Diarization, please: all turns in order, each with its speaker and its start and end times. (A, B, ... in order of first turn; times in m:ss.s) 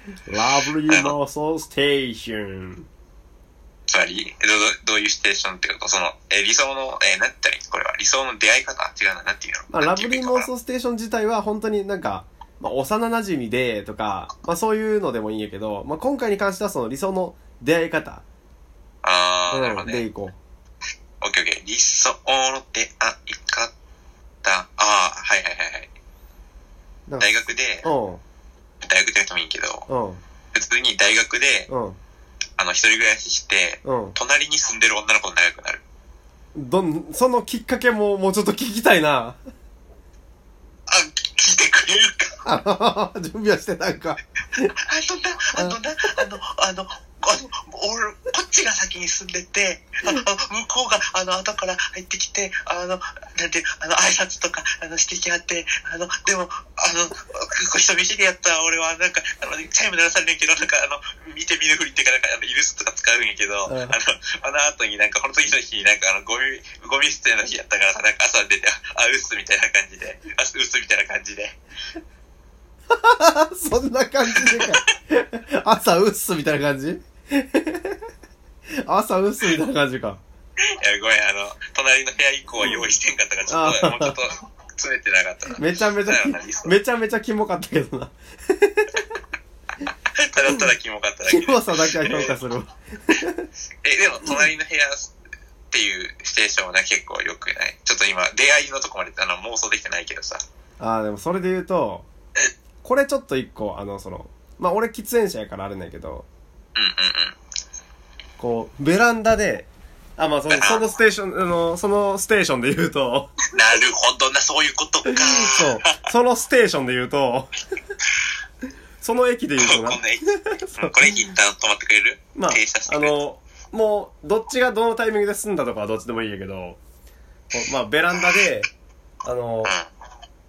0:00.3-0:02.9 A
0:00.9-0:01.1 B
0:03.9-0:10.5 B
0:09.7-0:18.2 A
0:19.0-0:20.1 B
0:19.5-0:20.4 A
0:21.2-0:23.7 B
0:24.4-0:25.9 B
0:27.2-0:27.9 B
0:27.8-0:28.2 A
0:28.8-0:29.9 B
0:29.9-0:30.2 A
0:30.5-0:31.7 B
0:31.7-0:32.0 A
0:32.6-0:35.8 B
0:33.8-0:34.2 A
0:36.6-0:39.4 A
0:40.9-0:42.4 B
0:42.4-0:44.7 A
0:44.8-1:11.6 B
1:03.7-1:04.0 A
1:12.9-1:18.0 A
1:14.3-1:14.7 B
1:18.8-1:20.2 A
1:20.8-1:26.8 B
1:23.5-1:24.2 A
1:25.5-1:29.1 A
1:30.1-1:32.4 B
1:31.3-1:33.5 A
1:33.8-1:35.1 B
1:35.7-1:40.4 B
1:40.8-1:42.1 A
1:42.8-1:46.3 A
1:46.8-1:47.4 B
1:48.4-1:53.3 A
1:50.5-1:50.8 B
1:53.5-1:56.0 B
1:55.1-1:57.6 A
1:59.0-2:01.2 A
1:59.6-2:03.2 B
2:02.4-2:06.8 A
2:07.5-2:08.7 A
2:09.2-2:09.7 A
2:09.6-2:09.9 B